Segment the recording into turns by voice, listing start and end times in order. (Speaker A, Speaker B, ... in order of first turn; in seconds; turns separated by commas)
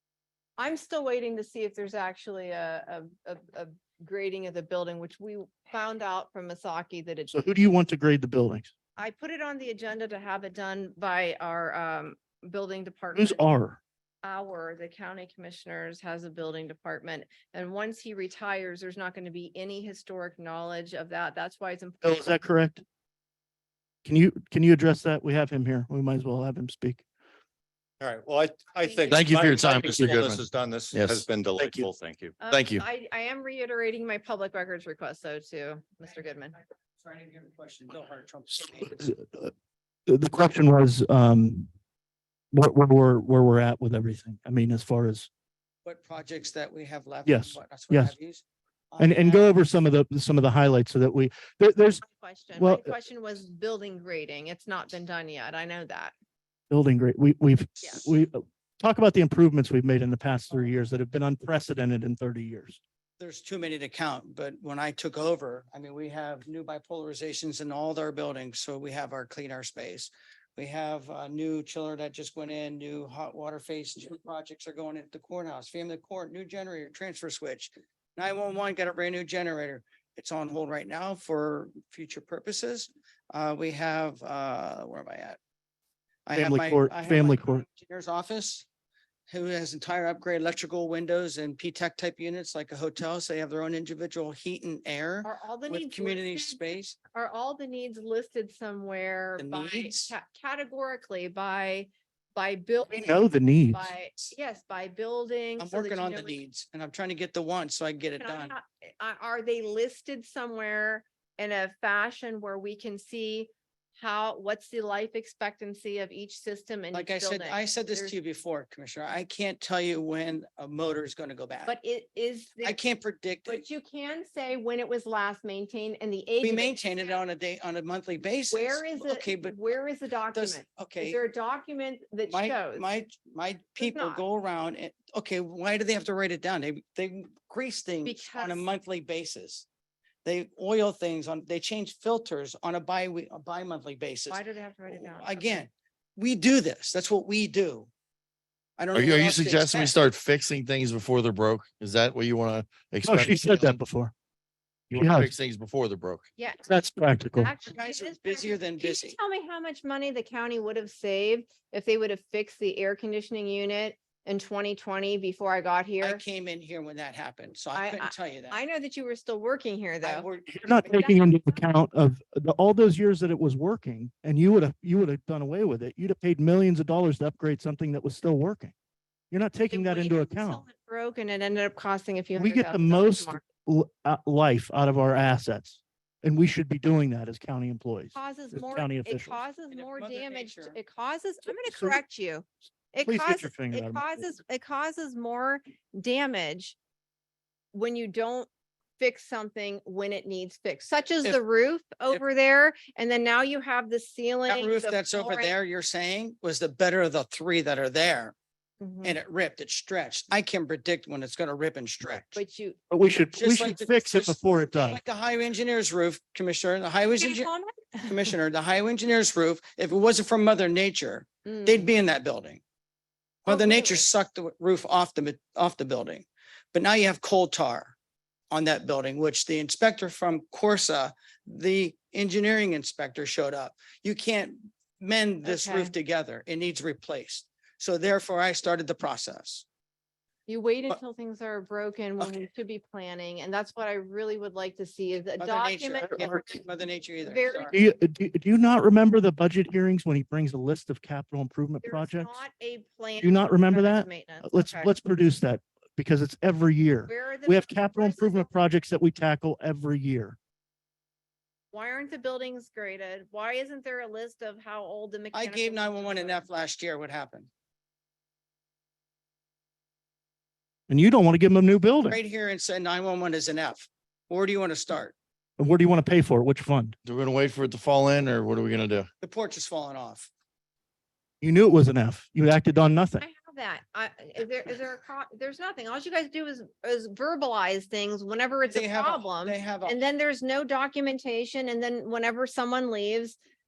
Speaker A: 0.6-7.4, Speaker B: 7.3-8.7, Speaker A: 9.0-13.4, Speaker B: 13.1-13.8, Speaker A: 14.2-22.3, Speaker B: 22.0-22.8, Speaker B: 24.0-27.0, Speaker C: 28.0-32.3, Speaker A: 28.9-29.3, Speaker D: 29.1-31.2, Speaker B: 31.6-31.9, Speaker A: 32.4-36.6, Speaker D: 32.5-32.8, Speaker E: 37.0-39.1, Speaker B: 39.0-39.5, Speaker B: 40.1-41.7, Speaker B: 42.5-45.3, Speaker E: 45.8-49.5, Speaker B: 47.2-48.1, Speaker B: 49.0-52.0, Speaker A: 52.0-56.1, Speaker B: 52.5-52.9, Speaker B: 56.7-62.8, Speaker E: 63.2-85.4, Speaker E: 86.2-88.7, Speaker B: 86.3-87.6, Speaker E: 89.3-97.0, Speaker A: 95.2-106.3, Speaker E: 99.4-100.1, Speaker B: 102.9-103.9, Speaker E: 105.6-108.5, Speaker A: 108.2-118.1, Speaker E: 116.9-121.8, Speaker A: 121.7-122.8, Speaker E: 122.6-123.6, Speaker A: 123.5-127.0, Speaker E: 126.4-129.6, Speaker A: 128.5-132.9, Speaker E: 130.3-131.2, Speaker E: 132.3-139.7, Speaker A: 133.8-134.2, Speaker A: 138.0-138.7, Speaker E: 140.2-147.9, Speaker A: 144.3-145.7, Speaker E: 148.8-150.0, Speaker D: 148.9-153.8, Speaker B: 153.1-154.1, Speaker B: 154.9-155.3, Speaker D: 154.9-156.3, Speaker A: 156.4-156.6, Speaker B: 156.7-157.5, Speaker A: 157.3-166.2, Speaker E: 157.7-159.2, Speaker E: 166.0-168.6, Speaker A: 167.7-170.3, Speaker E: 170.0-171.0, Speaker B: 170.5-178.7, Speaker A: 170.8-171.7, Speaker B: 179.3-180.6, Speaker A: 179.7-183.4, Speaker B: 182.4-189.4, Speaker A: 188.1-196.8, Speaker E: 189.7-190.8, Speaker B: 191.7-192.0, Speaker B: 193.0-194.2, Speaker A: 197.7-205.5, Speaker E: 204.5-208.3, Speaker A: 208.8-209.2, Speaker E: 209.0-212.4, Speaker A: 212.3-212.8, Speaker B: 212.9-215.0, Speaker E: 213.3-217.5, Speaker A: 217.2-218.3, Speaker E: 218.0-222.6, Speaker A: 221.4-221.9, Speaker E: 223.4-227.9, Speaker A: 223.5-224.1, Speaker E: 228.5-239.7, Speaker A: 235.4-235.9, Speaker A: 240.5-246.5, Speaker E: 245.4-247.7, Speaker A: 247.2-247.7, Speaker B: 247.7-252.3, Speaker A: 251.8-254.9, Speaker B: 253.2-260.4, Speaker A: 257.1-258.5, Speaker A: 261.7-266.5, Speaker E: 265.3-267.5, Speaker B: 270.9-272.2, Speaker E: 272.0-275.1, Speaker B: 275.6-276.9, Speaker D: 277.0-279.1, Speaker E: 279.2-280.3, Speaker B: 281.4-283.2, Speaker A: 283.2-293.4, Speaker E: 288.7-290.0